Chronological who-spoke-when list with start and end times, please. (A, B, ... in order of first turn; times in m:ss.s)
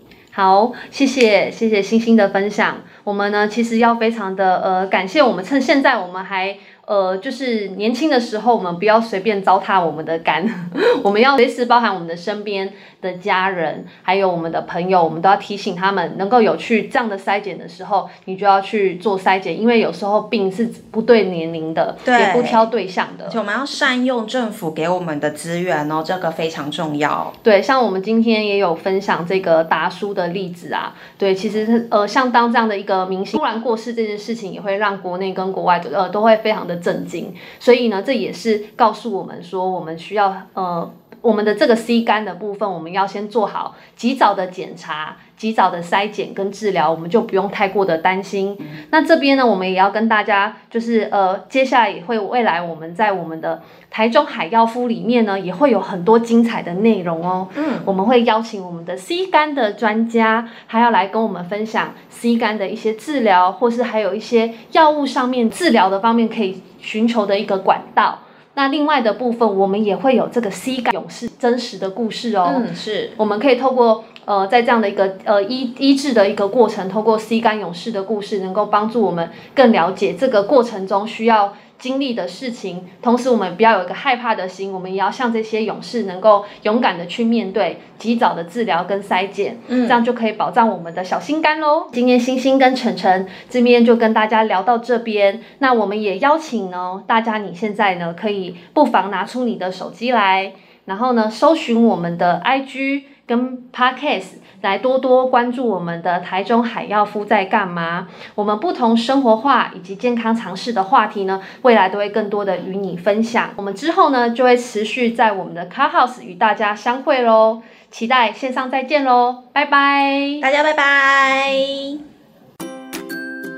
0:00.3-0:23.4 A
0:22.0-0:22.7 B
0:23.3-0:27.3 B
0:27.4-1:12.6 A
0:57.5-0:57.9 B
1:12.4-1:13.2 B
1:13.2-2:00.4 A
1:29.7-1:30.0 B
2:00.4-2:02.0 B